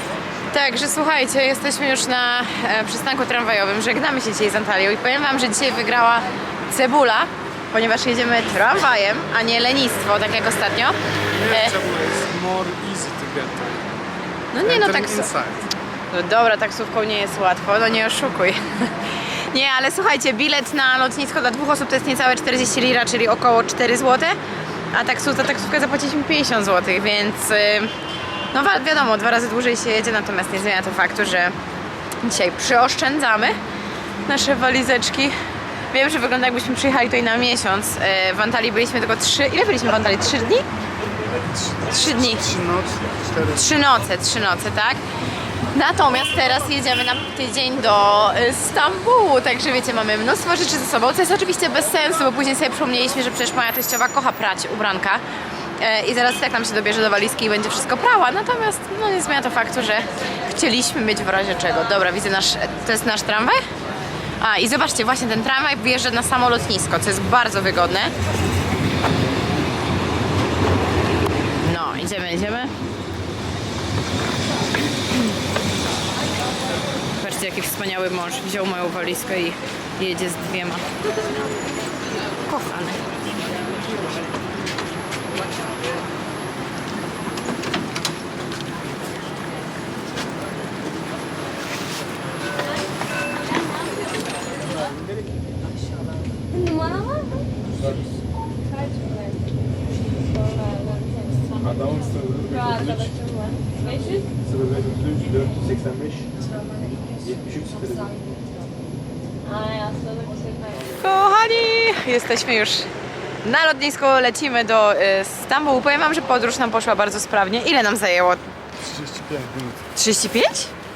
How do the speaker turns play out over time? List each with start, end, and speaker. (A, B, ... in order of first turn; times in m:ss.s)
0:00.5-0:11.0 A
0:11.3-0:14.0 B
0:11.5-0:11.8 A
0:14.5-0:15.3 A
0:14.6-0:15.6 B
0:16.1-0:24.4 A
0:24.9-0:27.9 A
0:28.5-0:31.6 A
0:32.2-0:33.6 A
0:34.3-0:35.4 A
0:35.9-0:40.7 A
0:41.5-0:43.7 B
0:41.8-0:42.5 A
0:43.5-0:45.0 A
0:45.7-0:55.2 A
0:55.8-1:03.6 A
1:04.4-1:08.1 A
1:11.6-1:12.8 A
1:17.2-1:20.9 A
1:22.4-1:23.0 A
1:34.6-1:35.4 B
1:36.6-1:37.5 C
1:37.7-1:38.1 B
1:40.5-1:41.3 C
1:41.5-1:43.2 B
1:42.6-1:44.2 C
1:44.4-1:46.3 B
1:46.7-1:47.0 C
1:47.1-1:48.2 B
1:47.8-1:48.5 C
1:49.5-1:50.8 C
1:50.9-1:52.9 A
1:53.4-1:58.5 A
1:58.8-1:59.9 B
2:00.0-2:00.7 A